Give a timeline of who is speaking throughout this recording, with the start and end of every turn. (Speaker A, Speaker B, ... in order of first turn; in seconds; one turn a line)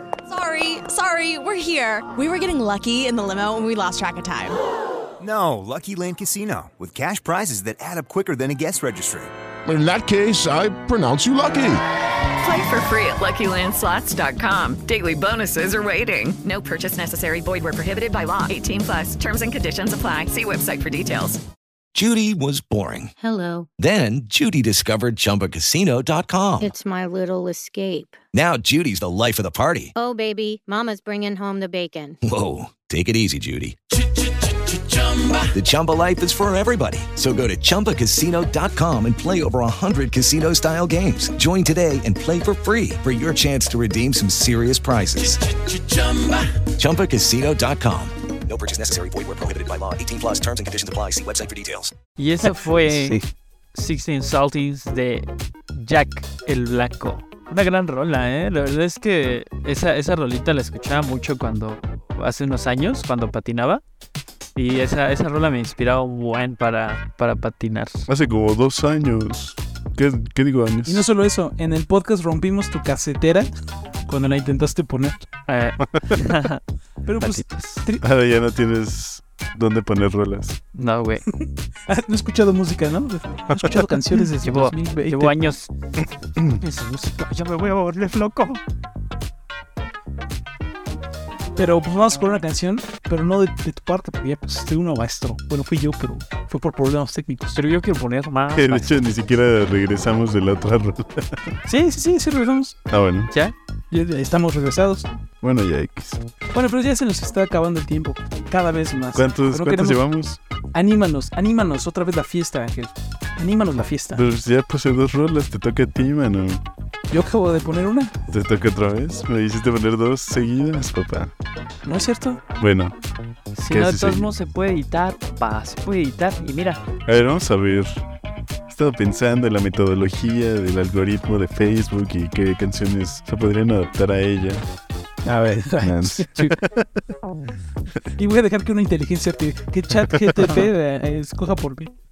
Speaker A: 0.3-4.6
Speaker B: 5.2-9.3
Speaker C: 9.7-11.8
Speaker D: 12.4-21.4
Speaker E: 21.9-23.1
Speaker F: 23.2-23.7
Speaker E: 23.8-26.7
Speaker F: 26.6-28.2
Speaker E: 28.3-29.9
Speaker F: 30.0-32.2
Speaker E: 32.2-33.8
Speaker E: 35.4-45.4
Speaker E: 46.8-51.9
Speaker G: 52.2-53.2
Speaker G: 53.7-63.8
Speaker G: 64.6-68.1
Speaker H: 68.1-71.1
Speaker I: 70.9-73.5
Speaker I: 74.1-75.2
Speaker G: 75.5-76.6
Speaker I: 77.0-78.0
Speaker G: 77.2-77.8
Speaker H: 78.0-80.6
Speaker G: 80.8-81.2
Speaker I: 81.2-85.4
Speaker G: 84.4-85.7
Speaker G: 86.6-88.6
Speaker I: 91.6-97.6
Speaker G: 97.5-98.9
Speaker H: 98.5-101.5
Speaker I: 101.7-102.8
Speaker H: 102.9-103.3
Speaker G: 103.3-103.5
Speaker I: 103.9-105.1
Speaker H: 105.4-106.2
Speaker I: 106.5-110.0
Speaker H: 109.2-110.4
Speaker I: 110.7-114.2
Speaker H: 114.2-116.6
Speaker I: 117.1-118.1
Speaker H: 118.3-121.3
Speaker I: 121.8-122.4
Speaker H: 122.6-123.0
Speaker G: 123.6-126.8
Speaker H: 123.7-124.3
Speaker H: 127.1-128.0
Speaker H: 128.7-134.7
Speaker I: 135.2-136.5
Speaker H: 135.8-137.0
Speaker I: 138.2-141.9